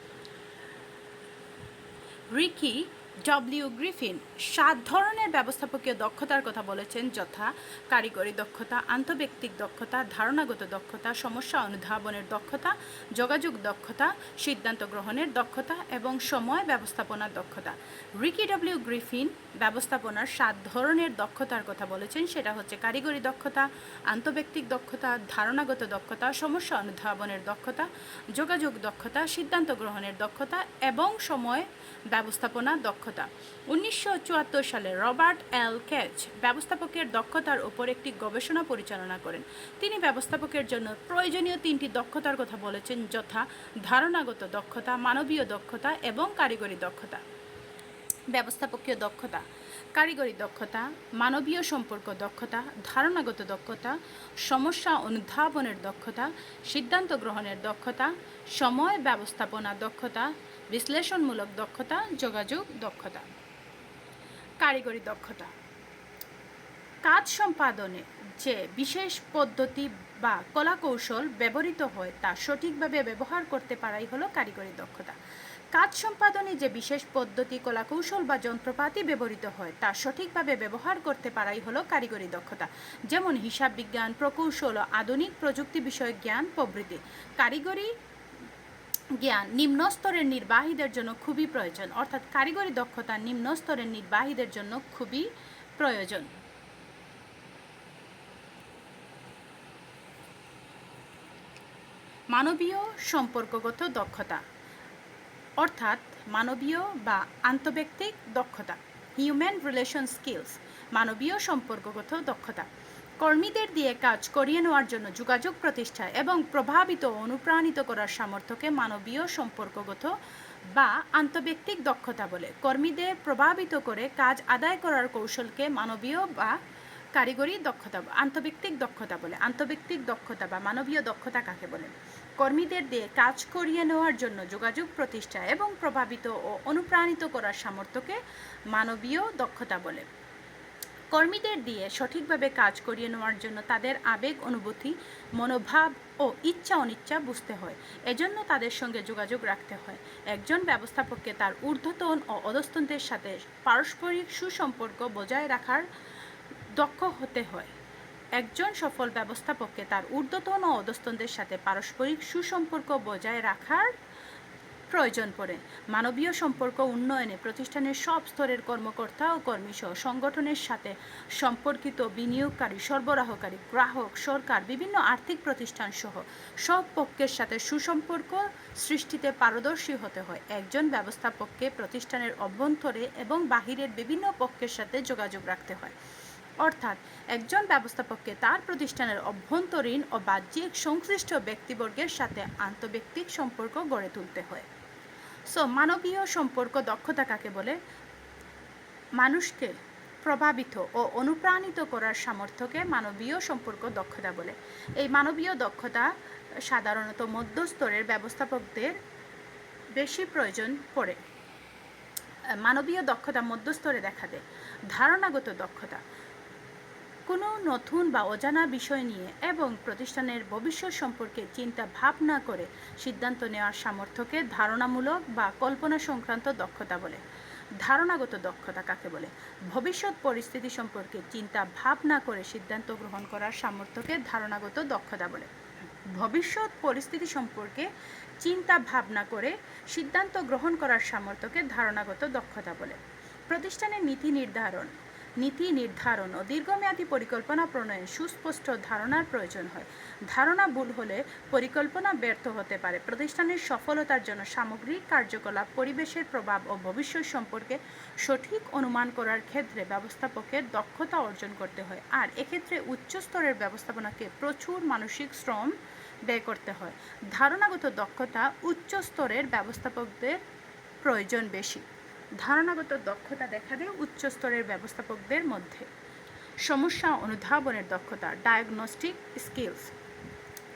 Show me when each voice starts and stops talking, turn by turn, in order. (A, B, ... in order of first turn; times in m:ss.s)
0:02.3-0:47.2 A
0:48.3-1:03.3 A
1:04.6-1:05.5 A
1:07.0-1:15.2 A
1:15.7-1:27.9 A
1:29.2-1:36.3 A
1:42.3-1:44.4 A
1:45.6-1:52.7 A
1:53.2-2:00.2 A
2:00.7-2:06.6 A
2:07.2-2:18.2 A
2:18.7-2:20.1 A
2:21.1-2:35.9 A
2:36.7-2:37.7 A
2:38.4-2:43.9 A
2:44.9-3:06.0 A
3:06.6-3:14.7 A
3:15.5-3:17.8 A
3:19.2-3:29.0 A
3:29.9-3:31.2 A
3:32.6-3:36.0 A
3:37.3-3:47.2 A
3:47.8-3:55.5 A
3:56.0-3:57.9 A
3:58.4-4:25.7 A
4:26.2-4:30.4 A
4:31.0-4:31.8 A
4:32.4-4:35.9 A
4:36.6-4:39.9 A